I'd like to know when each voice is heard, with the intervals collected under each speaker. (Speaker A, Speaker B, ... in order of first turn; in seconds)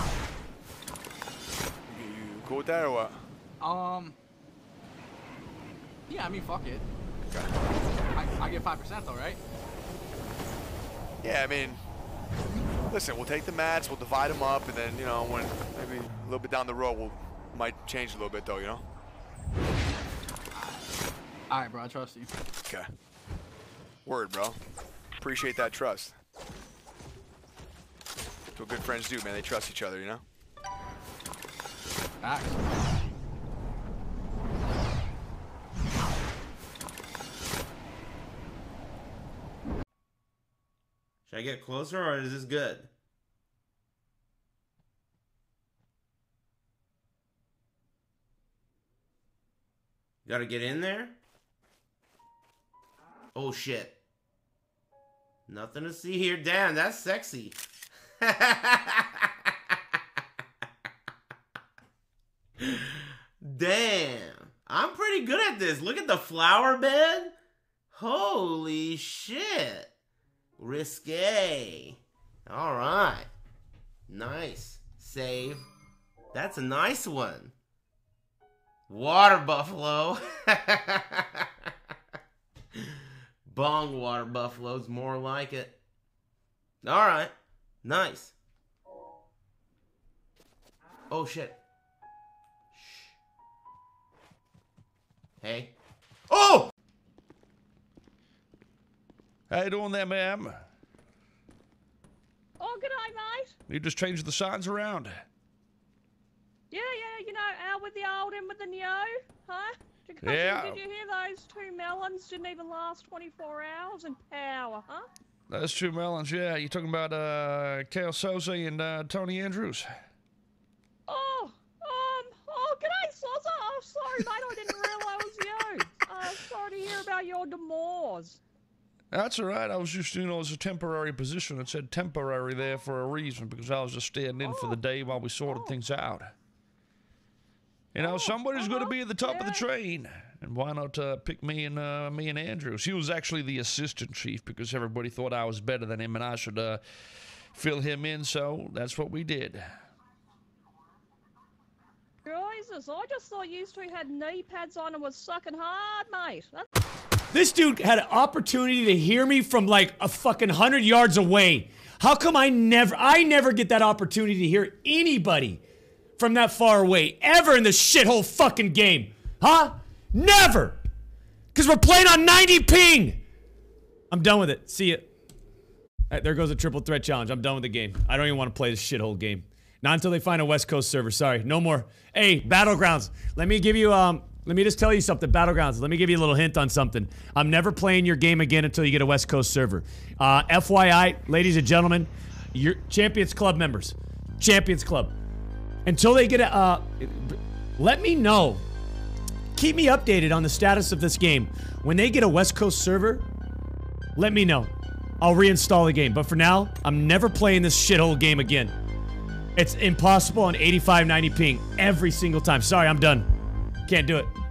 Speaker A: 1.9-3.2, 11.2-11.8, 12.9-18.8, 24.0-24.6, 25.2-26.1, 28.5-30.2
Speaker B: 3.6-4.1, 6.1-6.8, 8.1-9.4, 20.5-20.9, 21.5-22.3, 32.2-32.7
Speaker C: 41.3-42.9, 50.2-51.2, 53.3-54.0, 55.5-57.6, 58.2-59.3, 63.4-67.3, 67.9-69.9, 70.6-73.3, 74.1-75.7, 76.3-77.5, 78.9-81.4, 83.5-85.8, 86.8-87.3, 87.8-88.3, 91.1-91.6, 92.7-93.1, 95.4-95.7, 96.3-96.7
Speaker D: 99.5-100.5, 103.7-105.2, 110.2-110.8, 115.5-119.9, 129.2-136.3, 137.9-146.7, 147.7-149.6
Speaker E: 102.6-103.5, 106.7-115.1, 121.1-128.4, 134.4-134.8, 135.4-135.8, 138.0-139.7, 152.2-156.7
Speaker F: 157.3-165.6, 166.2-170.8, 171.5-173.2, 174.1-175.1, 176.1-195.1, 195.8-198.6, 199.5-203.2, 204.2-208.7, 209.6-213.3, 213.8-214.3